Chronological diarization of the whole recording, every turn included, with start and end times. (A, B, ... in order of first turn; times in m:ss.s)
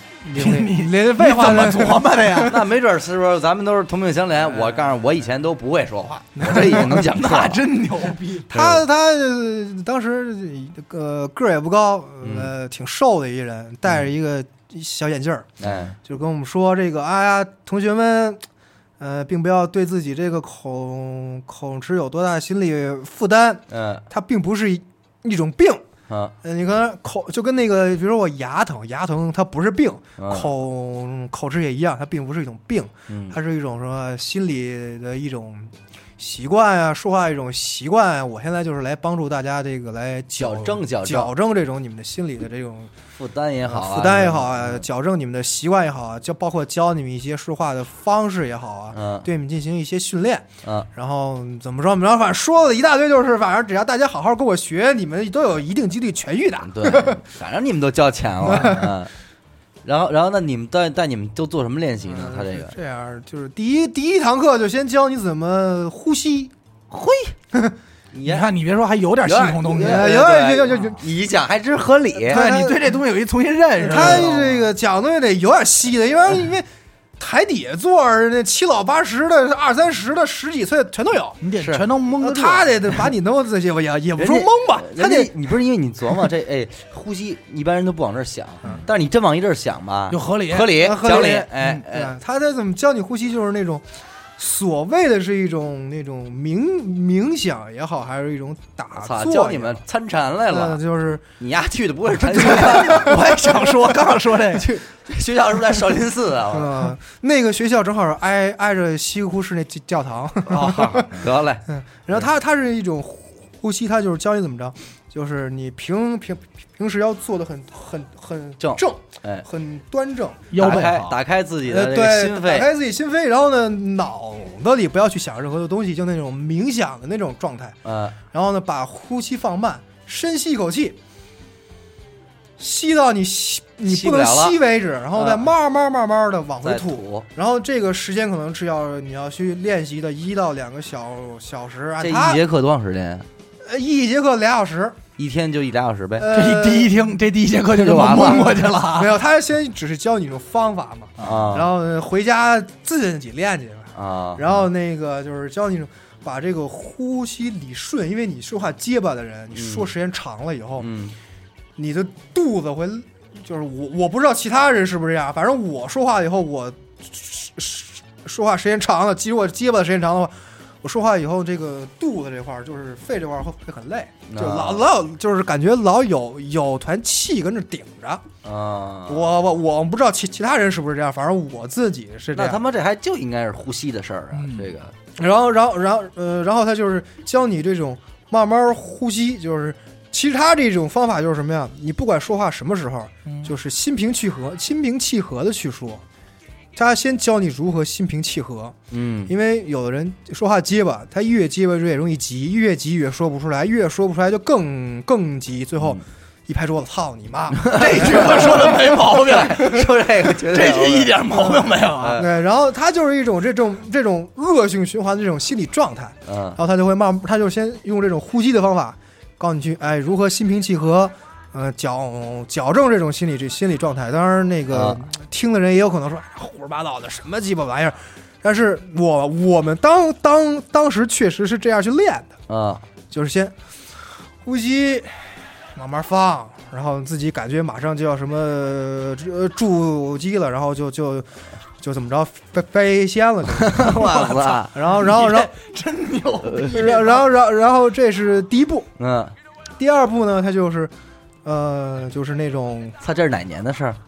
0:00.2-0:02.5 A
0:00.3-0:02.6 B
0:02.4-0:07.6 C
0:06.4-0:07.0 A
0:06.4-0:08.7 B
0:08.5-0:15.5 A
0:12.2-0:12.5 C
0:15.6-0:16.0 C
0:16.0-0:18.4 A
0:19.0-0:25.8 A
0:23.7-0:24.0 C
0:26.4-0:42.9 A
0:30.2-0:30.5 C
0:33.1-0:33.4 C
0:40.4-0:41.3 C
0:43.1-0:44.8 C
0:43.7-0:57.2 A
0:48.9-0:49.3 C
0:56.6-0:59.1 C
0:58.4-0:58.9 A
0:59.8-1:02.7 C
1:02.0-1:06.5 A
1:06.9-1:07.3 C
1:08.1-1:08.5 C
1:08.2-1:10.2 B
1:09.2-1:12.4 C
1:09.8-1:11.0 A
1:12.3-1:12.8 A
1:12.3-1:14.6 B
1:13.8-1:16.7 A
1:17.2-1:21.4 A
1:21.4-1:23.0 B
1:22.2-1:25.3 A
1:24.2-1:32.1 C
1:30.1-1:31.7 B
1:30.7-1:33.8 A
1:34.4-1:39.8 A
1:38.9-1:40.8 C
1:40.5-1:41.3 A
1:41.4-1:43.1 C
1:42.3-1:44.7 B
1:42.7-1:43.7 A
1:44.5-1:44.8 A
1:45.0-1:46.7 C
1:46.5-2:00.6 A
1:50.4-1:52.2 C
1:58.6-1:59.4 C
2:00.5-2:01.2 B
2:00.6-2:02.7 C
2:01.6-2:07.8 A
2:07.8-2:08.2 C
2:08.3-2:11.0 A
2:12.6-2:22.4 A
2:13.8-2:14.6 C
2:15.1-2:15.5 C
2:16.6-2:17.2 C
2:22.0-2:23.2 C
2:23.6-2:25.0 A
2:25.2-2:26.3 C
2:26.2-2:27.0 A
2:26.3-2:29.1 B
2:27.7-2:28.6 C
2:28.1-2:40.9 A
2:31.2-2:31.5 B
2:31.2-2:31.7 C
2:33.9-2:34.4 C
2:39.5-2:39.9 C
2:40.8-2:41.1 C
2:41.8-2:58.2 A
2:54.3-2:54.8 C
2:58.4-2:59.3 C
2:59.1-3:02.6 A
3:02.3-3:04.9 C
3:04.3-3:04.7 B
3:05.2-3:16.0 A
3:13.2-3:13.5 B
3:16.7-3:18.8 A
3:18.9-3:19.3 C
3:19.3-3:28.7 A
3:27.6-3:32.3 C
3:27.6-3:29.8 B
3:30.4-3:32.2 B
3:32.2-3:52.4 A
3:36.3-3:36.6 C
3:44.7-3:45.0 C
3:52.5-3:52.8 C
3:53.1-3:53.5 A
3:54.4-4:01.3 A
4:01.8-4:05.5 A
4:03.6-4:04.7 C
4:03.9-4:07.3 B
4:06.6-4:08.9 A
4:09.0-4:09.3 C
4:09.8-4:10.9 A
4:11.4-4:13.0 A
4:13.0-4:14.0 C